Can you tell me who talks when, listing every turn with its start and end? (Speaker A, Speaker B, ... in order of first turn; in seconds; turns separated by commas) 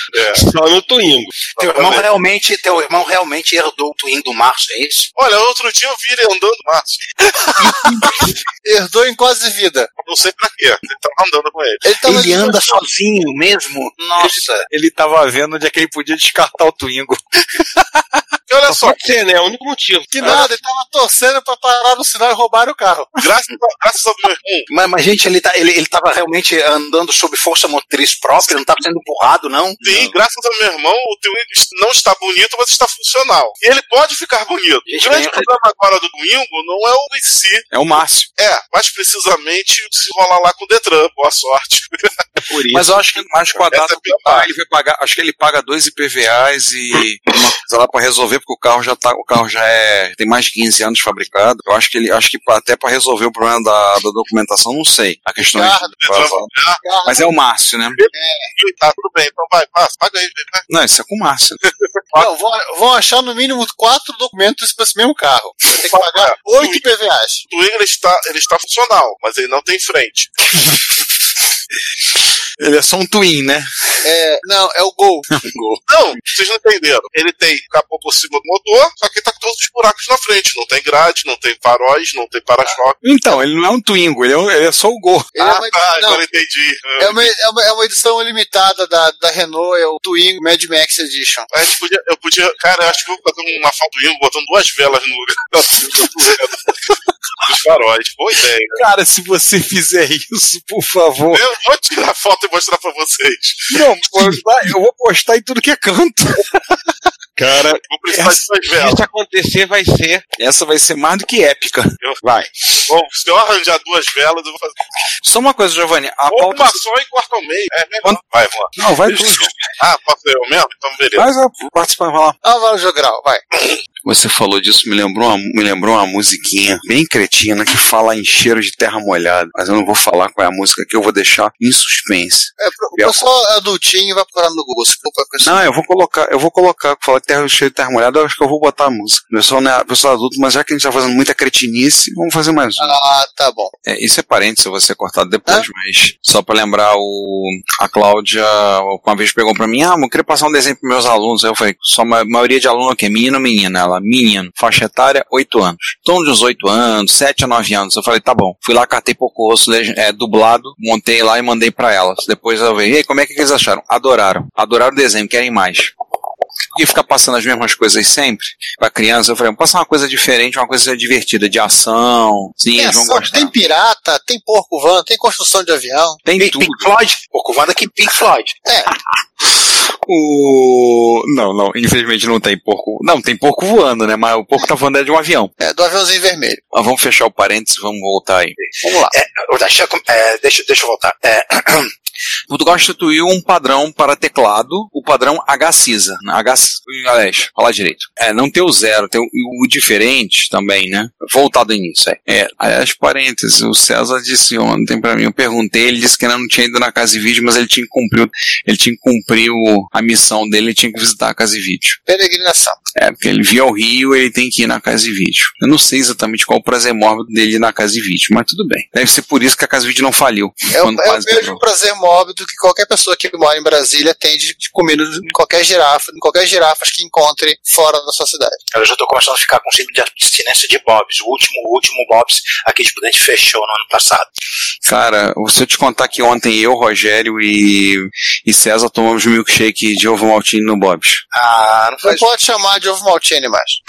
Speaker A: 0.1-0.5, Speaker B: 0.3-1.4, Speaker A: 1.6-2.1, Speaker C: 1.6-5.1, Speaker A: 5.2-7.0, Speaker D: 8.6-9.9, Speaker A: 10.0-11.8, Speaker D: 11.8-12.8, Speaker C: 12.0-14.7, Speaker E: 14.2-18.2, Speaker A: 18.5-19.0, Speaker B: 18.7-20.4, Speaker D: 20.1-23.2, Speaker A: 20.2-20.5, Speaker A: 23.2-24.7, Speaker C: 24.7-30.2, Speaker A: 29.8-37.7, Speaker C: 35.0-35.4, Speaker E: 37.7-38.3, Speaker A: 38.4-42.0, Speaker B: 42.5-43.0, Speaker E: 42.7-56.5, Speaker A: 43.6-44.5, Speaker D: 55.5-56.0, Speaker A: 56.0-56.8, Speaker D: 56.8-57.2, Speaker E: 57.0-58.0, Speaker A: 58.0-60.6, Speaker D: 58.1-58.5, Speaker E: 60.7-61.6, Speaker D: 62.1-67.4, Speaker A: 65.7-66.9, Speaker A: 67.5-70.3, Speaker E: 72.6-73.7, Speaker D: 74.0-75.3, Speaker E: 75.3-75.8, Speaker A: 75.9-83.0, Speaker E: 83.0-85.3, Speaker D: 85.4-86.2, Speaker A: 85.4-87.3, Speaker D: 87.0-91.5, Speaker A: 91.5-96.6, Speaker A: 97.4-98.8, Speaker E: 98.7-101.5, Speaker A: 101.3-103.8, Speaker E: 103.7-106.8, Speaker B: 107.4-107.8, Speaker A: 107.9-109.0, Speaker E: 108.1-108.4, Speaker B: 108.7-110.2, Speaker E: 110.4-112.0, Speaker A: 112.9-114.8, Speaker E: 115.2-116.8, Speaker A: 116.3-118.7, Speaker E: 118.8-119.7, Speaker A: 119.2-121.3, Speaker E: 121.2-122.4, Speaker D: 122.4-123.4, Speaker E: 124.0-133.3, Speaker D: 132.6-135.6, Speaker E: 135.4-142.9, Speaker D: 142.8-143.7, Speaker E: 143.9-165.9, Speaker E: 166.8-173.5, Speaker D: 172.8-176.2, Speaker E: 176.2-176.9, Speaker C: 176.4-178.6, Speaker D: 178.7-178.9, Speaker E: 179.6-185.5, Speaker D: 185.6-186.6, Speaker E: 186.7-188.6, Speaker D: 188.8-189.1, Speaker C: 189.1-191.9, Speaker E: 192.5-212.0, Speaker D: 212.1-212.8, Speaker E: 212.9-221.6, Speaker D: 220.7-228.6, Speaker C: 228.7-234.3, Speaker E: 234.8-241.2, Speaker C: 241.3-242.3, Speaker D: 242.0-243.8